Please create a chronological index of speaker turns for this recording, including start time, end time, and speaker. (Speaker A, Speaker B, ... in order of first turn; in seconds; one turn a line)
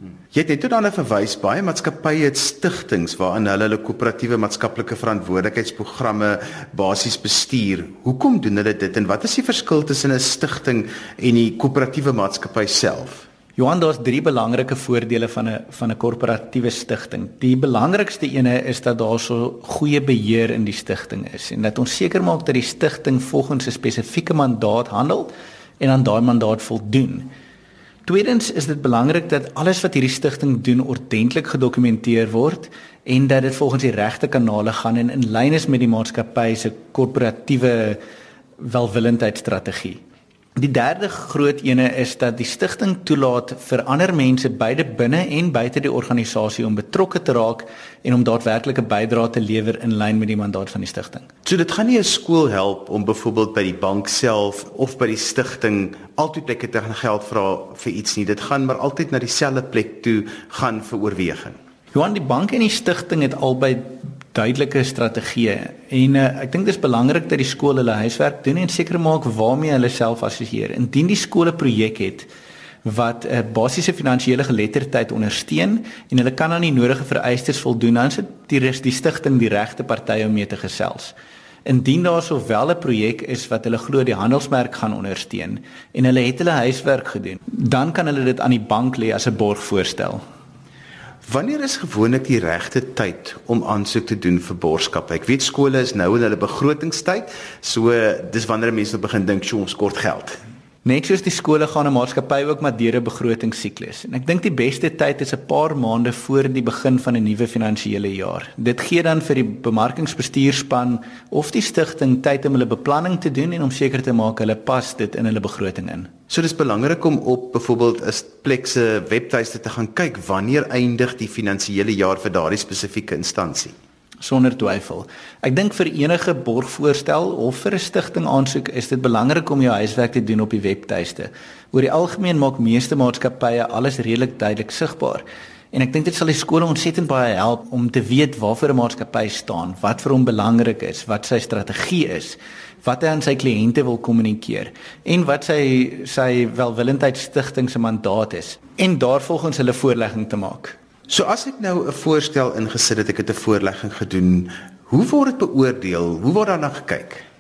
Speaker A: 0.3-13.3
Speaker B: 13.6-27.3
Speaker B: 28.1-38.0
Speaker B: 38.6-40.0
Speaker B: 40.6-51.3
Speaker A: 51.4-61.6
Speaker B: 61.9-72.3
Speaker B: 72.8-81.1
Speaker B: 81.6-90.2
Speaker A: 91.3-100.4
Speaker B: 100.8-116.1
Speaker A: 116.3-123.7
Speaker B: 124.2-150.8
Speaker A: 151.1-157.2